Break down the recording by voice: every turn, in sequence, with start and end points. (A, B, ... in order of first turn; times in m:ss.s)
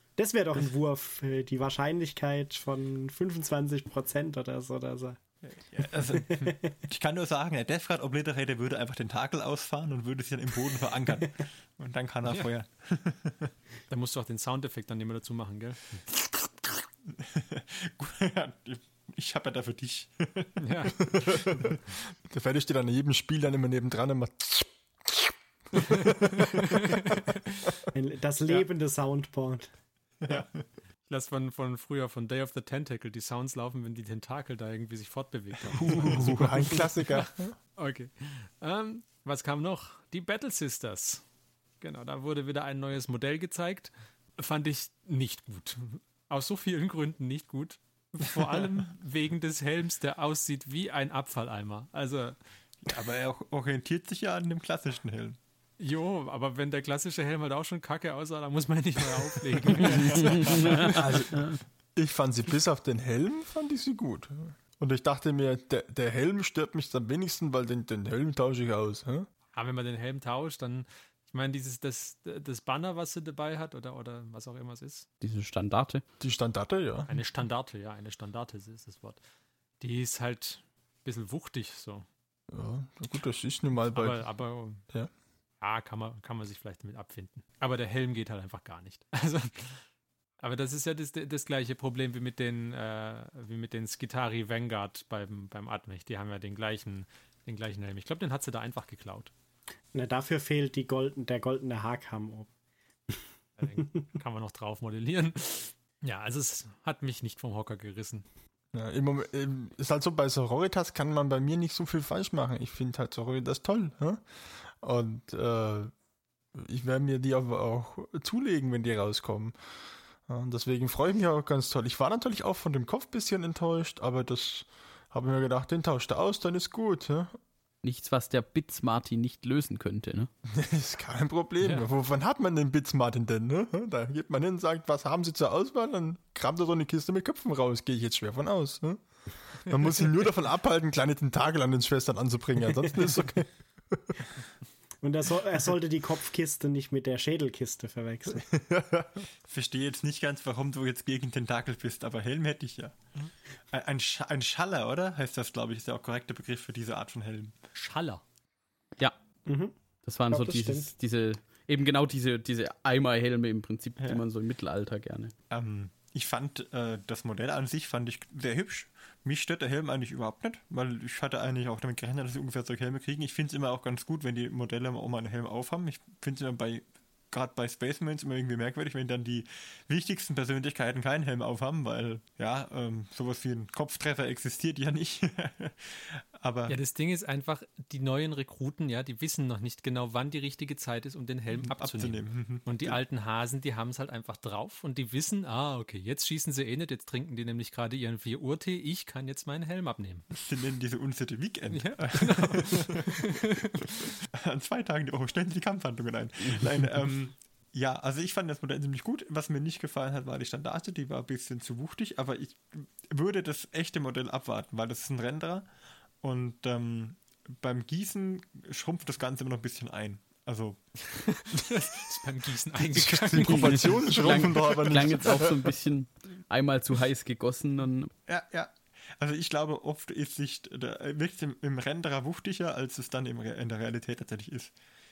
0:00.2-0:05.2 A
0:05.4-0:13.5 B
0:06.1-0:06.6 A
0:13.9-0:16.0 C
0:17.2-0:21.8 B
0:20.6-0:21.0 C
0:22.3-0:26.6 D
0:26.7-0:27.6 C
0:27.9-0:29.7 A
0:31.1-0:41.2 C
0:35.8-0:37.6 D
0:35.9-0:36.5 B
0:41.8-0:52.4 C
0:52.8-0:55.4 B
0:55.8-1:01.2 C
0:59.9-1:01.6 E
1:00.8-1:09.3 D
1:09.5-1:15.1 C
1:15.2-1:16.0 E
1:16.2-1:17.2 D
1:17.1-1:19.2 C
1:19.8-1:22.0 C
1:22.5-1:24.2 D
1:23.9-1:24.8 C
1:25.6-1:29.8 C
1:30.4-1:39.3 C
1:39.9-1:42.5 A
1:43.6-1:48.3 C
1:48.7-1:55.9 D
1:56.5-1:59.5 D
2:00.2-2:07.4 D
2:07.8-2:10.3 E
2:10.5-2:24.1 D
2:11.6-2:11.9 C
2:22.8-2:23.3 A
2:25.0-2:28.5 A
2:28.5-2:29.1 D
2:29.4-2:33.0 B
2:33.7-2:37.6 B
2:37.7-2:38.2 C
2:39.4-2:39.7 A
2:40.0-2:45.3 E
2:40.3-2:40.9 A
2:45.5-3:06.8 B
3:06.7-3:20.2 C
3:11.6-3:13.0 B
3:20.3-3:23.2 B
3:21.7-3:23.8 C
3:24.0-3:35.6 B
3:36.2-3:41.4 B
3:41.5-3:43.9 C
3:43.0-3:45.6 D
3:43.3-3:45.6 B
3:43.4-3:48.1 E
3:48.3-3:54.7 B